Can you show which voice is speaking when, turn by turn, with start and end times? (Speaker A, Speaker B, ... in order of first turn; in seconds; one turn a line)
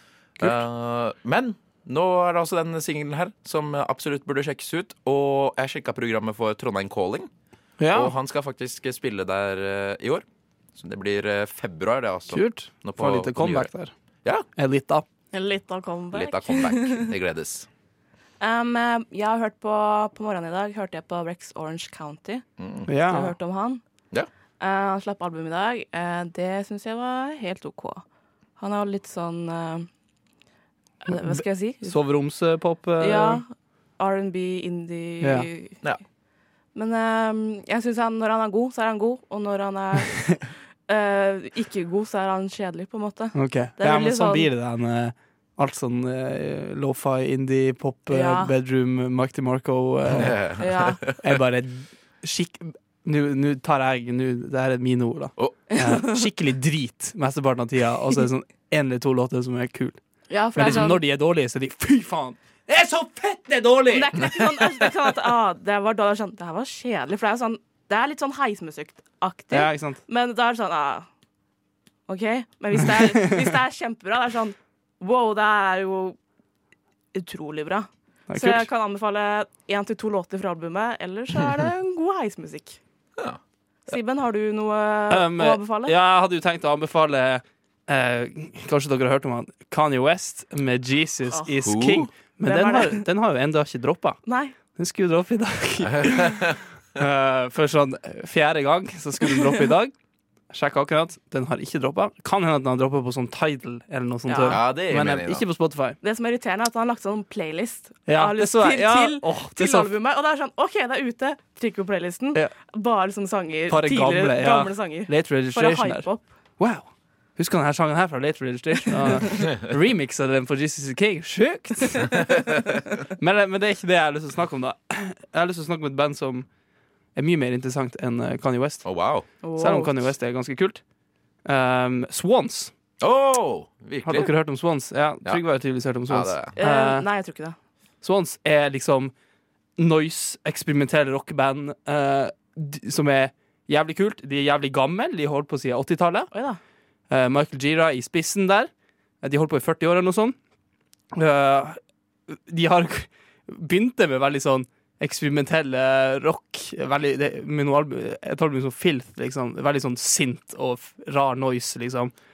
Speaker A: 0.4-7.3
Speaker B: 7.8-8.1
Speaker A: 7.9-13.7
Speaker B: 12.3-13.9
Speaker B: 14.6-15.0
Speaker C: 15.3-17.1
Speaker A: 16.1-17.7
Speaker C: 18.4-22.4
Speaker A: 22.6-22.9
Speaker B: 22.9-23.3
Speaker C: 23.1-23.8
Speaker C: 24.6-28.0
Speaker C: 28.6-29.9
Speaker C: 31.0-32.0
Speaker B: 31.1-33.4
Speaker C: 33.0-35.8
Speaker B: 35.2-35.5
Speaker C: 36.7-44.5
Speaker B: 43.3-50.4
Speaker C: 48.1-48.5
Speaker A: 50.1-51.1
Speaker C: 50.6-51.0
Speaker B: 51.2-60.0
Speaker C: 55.7-56.2
Speaker C: 60.3-61.0
Speaker B: 60.5-64.2
Speaker C: 63.9-71.1
Speaker B: 69.5-70.0
Speaker C: 72.1-76.2
Speaker C: 77.1-82.8
Speaker B: 78.3-78.7
Speaker C: 83.9-86.0
Speaker B: 85.1-94.2
Speaker A: 91.6-92.1
Speaker C: 92.4-93.0
Speaker C: 94.2-94.5
Speaker B: 94.7-99.9
Speaker A: 95.8-96.6
Speaker B: 100.5-106.0
Speaker C: 104.3-104.6
Speaker A: 104.4-105.5
Speaker C: 106.0-116.2
Speaker B: 108.1-109.9
Speaker B: 113.7-116.1
Speaker B: 116.6-116.8
Speaker B: 117.4-122.2
Speaker B: 123.2-126.5
Speaker B: 127.1-128.8
Speaker A: 128.8-129.3
Speaker C: 129.4-130.0
Speaker B: 129.6-130.8
Speaker B: 131.4-132.7
Speaker A: 133.0-134.3
Speaker B: 134.0-137.1
Speaker A: 136.1-136.6
Speaker C: 136.6-137.6
Speaker B: 138.0-139.1
Speaker B: 139.8-146.3
Speaker C: 146.3-146.6
Speaker B: 147.1-148.7
Speaker B: 149.2-150.3
Speaker B: 151.1-162.1